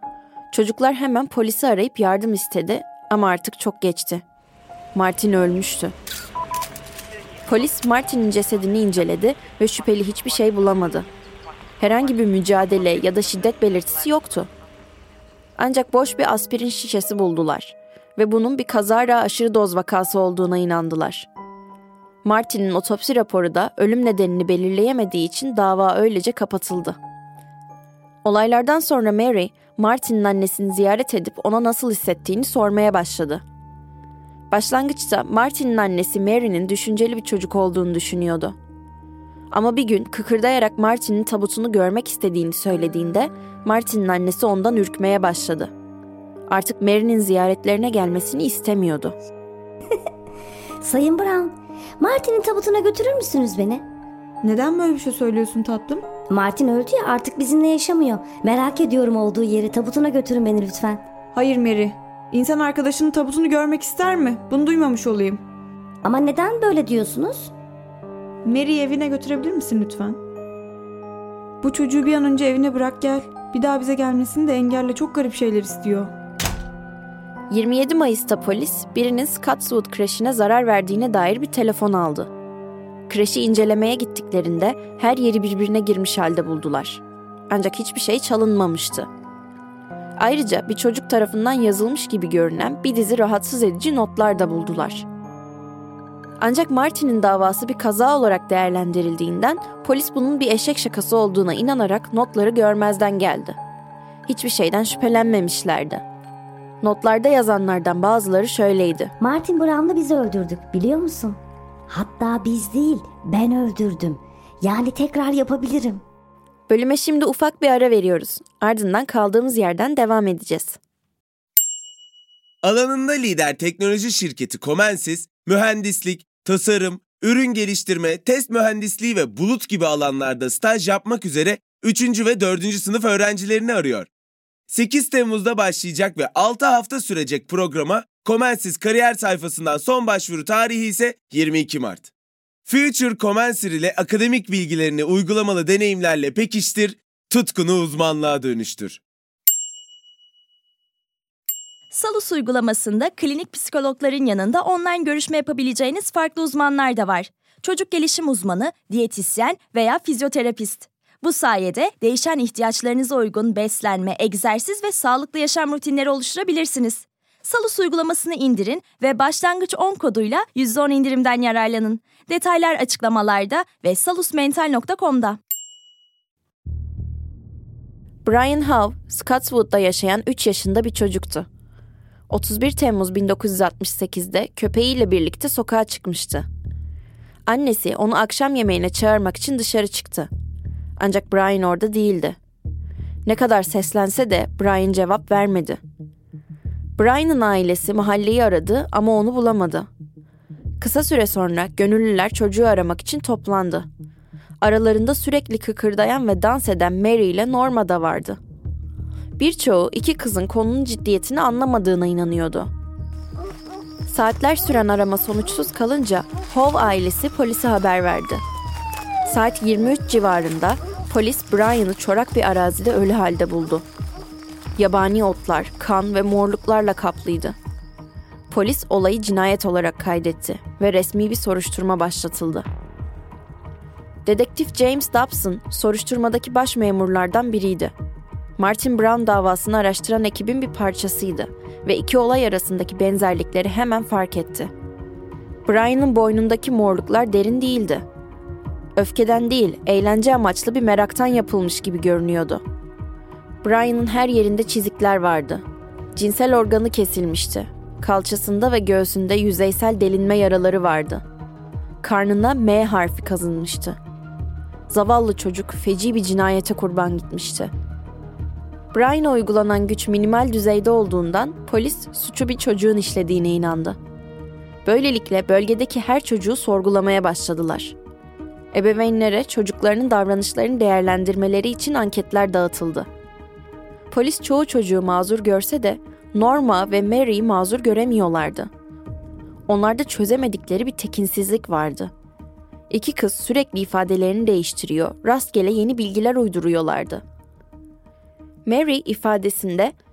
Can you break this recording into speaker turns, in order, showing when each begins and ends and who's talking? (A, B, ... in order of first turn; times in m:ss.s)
0:00.5-0:04.2 A
0:04.9-0:05.9 A
0:07.5-0:11.1 A
0:11.8-0:14.5 A
0:15.6-0:21.3 A
0:22.2-0:27.0 A
0:28.2-0:33.4 A
0:34.5-0:38.6 A
0:39.5-0:45.7 A
0:46.5-0:49.2 A
0:50.8-0:53.8 B
0:54.4-0:56.0 C
0:56.3-1:01.0 B
1:01.3-1:05.4 C
1:06.0-1:07.5 B
1:08.4-1:10.2 C
1:11.6-1:16.1 C
1:17.5-1:22.3 A
1:23.1-1:29.1 A
1:30.2-1:35.1 A
1:36.4-1:43.6 A
1:44.3-1:46.0 A
1:46.8-1:49.1 A
1:49.2-1:56.0 B
1:56.7-2:00.8 A
2:02.6-2:14.1 D
2:14.7-2:22.1 D
2:22.7-2:29.0 D
2:31.9-2:55.4 E
2:58.2-3:01.5 A
3:02.3-3:06.4 A
3:07.5-3:10.3 A
3:11.0-3:12.4 A
3:13.3-3:15.8 A
3:17.0-3:19.9 A
3:20.8-3:23.9 A
3:24.6-3:28.4 A
3:29.4-3:32.7 A
3:34.1-3:38.4 A
3:39.3-3:43.8 A
3:44.8-3:47.6 A
3:48.5-3:52.7 A
3:54.2-3:57.9 A
3:58.6-4:04.7 A
4:05.7-4:08.0 A
4:09.0-4:12.6 A
4:13.6-4:15.6 A
4:16.2-4:21.2 A
4:22.0-4:24.0 A
4:24.9-4:27.7 A
4:28.9-4:34.0 A
4:34.8-4:38.0 A
4:38.7-4:43.1 A
4:44.1-4:48.7 A
4:49.7-4:52.1 A
4:52.9-4:57.2 A
4:58.7-5:00.0 A